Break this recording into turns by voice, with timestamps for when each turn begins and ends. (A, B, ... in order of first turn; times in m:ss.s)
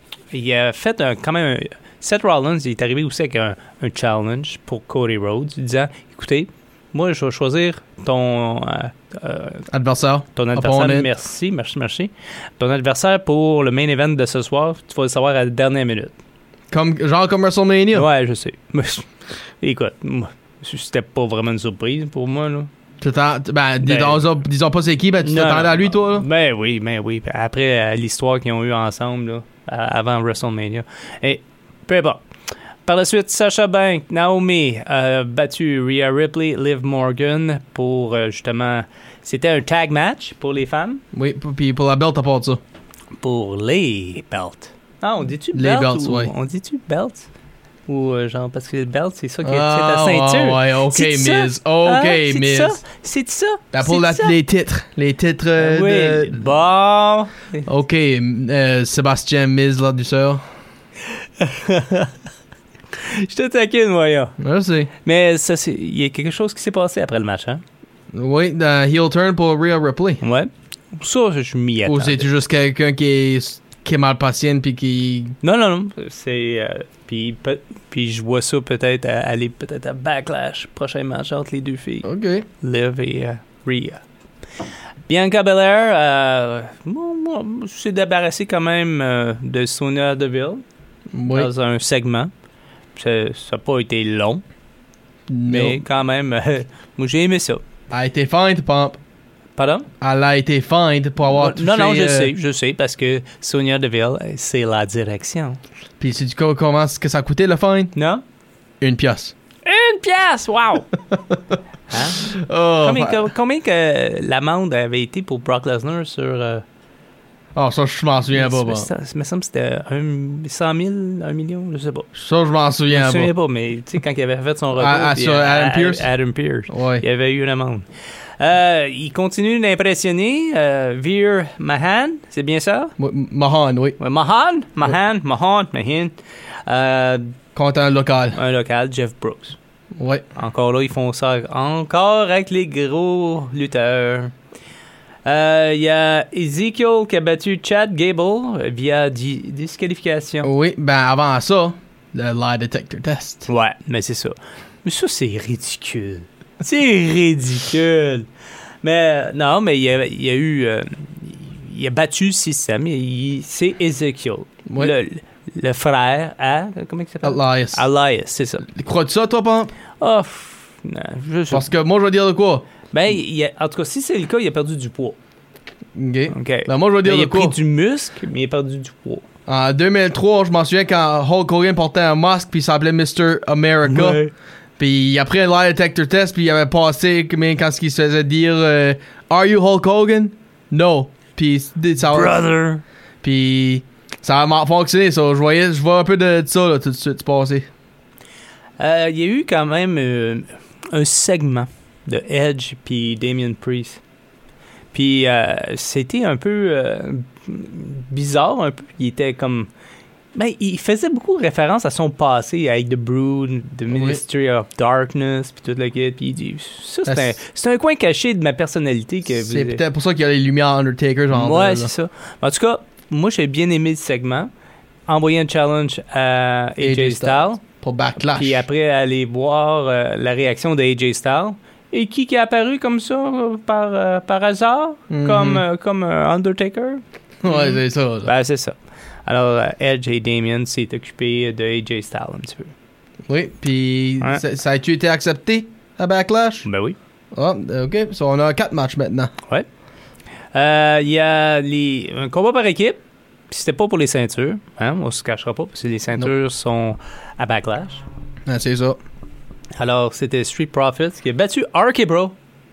0:00.3-0:09.6 A
0:09.7-0:11.1 B
0:10.3-0:16.1 A
0:16.7-0:18.1 B
0:17.9-0:22.7 A
0:23.0-0:26.2 B
0:23.8-0:24.2 A
0:25.2-0:32.2 A
0:32.8-0:41.0 A
0:41.1-0:42.6 B
0:43.2-0:47.3 A
0:45.5-0:46.3 B
0:47.9-0:54.4 A
0:49.4-0:52.8 B
0:53.7-0:56.5 B
0:55.6-0:57.6 A
0:57.6-1:00.4 B
1:01.4-1:02.1 A
1:03.0-1:04.4 A
1:04.4-1:04.9 B
1:05.0-1:07.6 A
1:08.1-1:10.2 B
1:10.2-1:12.3 A
1:11.8-1:15.4 B
1:15.4-1:22.1 A
1:22.0-1:22.4 B
1:22.6-1:24.0 A
1:25.1-1:30.6 A
1:31.1-1:31.5 B
1:31.3-1:32.3 A
1:32.9-1:34.4 A
1:35.3-1:35.8 B
1:35.5-1:37.6 A
1:37.9-1:39.0 B
1:39.6-1:39.9 A
1:40.0-1:42.3 B
1:41.3-1:45.6 A
1:46.0-1:47.9 B
1:47.9-1:48.2 A
1:48.8-1:49.3 B
1:49.6-1:50.9 A
1:51.1-1:51.5 B
1:51.9-1:56.6 A
1:52.2-1:53.2 B
1:57.5-1:58.9 B
1:58.3-2:02.1 A
2:02.1-2:03.3 B
2:02.9-2:07.9 A
2:04.7-2:06.1 B
2:06.7-2:07.0 B
2:08.4-2:12.9 A
2:13.0-2:14.0 B
2:14.0-2:16.1 A
2:16.6-2:17.3 A
2:17.5-2:18.4 B
2:18.3-2:19.6 A
2:20.0-2:20.3 B
2:20.4-2:24.3 A
2:25.2-2:30.5 A
2:30.4-2:33.5 B
2:33.5-2:38.3 A
2:38.8-2:48.7 A
2:44.7-2:44.9 B
2:47.2-2:47.8 B
2:48.6-2:49.7 B
2:50.0-2:51.7 A
2:51.5-2:52.6 B
2:52.9-2:55.2 A
2:55.9-2:57.6 B
2:56.3-2:59.2 A
2:59.5-3:04.2 B
3:03.8-3:04.3 A
3:04.8-3:12.4 B
3:12.0-3:12.8 A
3:13.2-3:17.7 B
3:18.8-3:24.0 A
3:24.9-3:29.7 A
3:30.3-3:39.8 A
3:33.9-3:34.2 B
3:37.0-3:37.3 B
3:39.3-3:41.9 B
3:41.3-3:44.5 A
3:45.1-3:47.6 A
3:46.8-3:48.6 B
3:48.4-4:02.7 A
3:55.1-3:55.6 B
3:57.4-3:58.3 B
4:03.3-4:06.7 B
4:06.6-4:07.0 A
4:07.3-4:09.3 B
4:10.5-4:18.0 A
4:18.4-4:19.0 B
4:19.8-4:22.3 A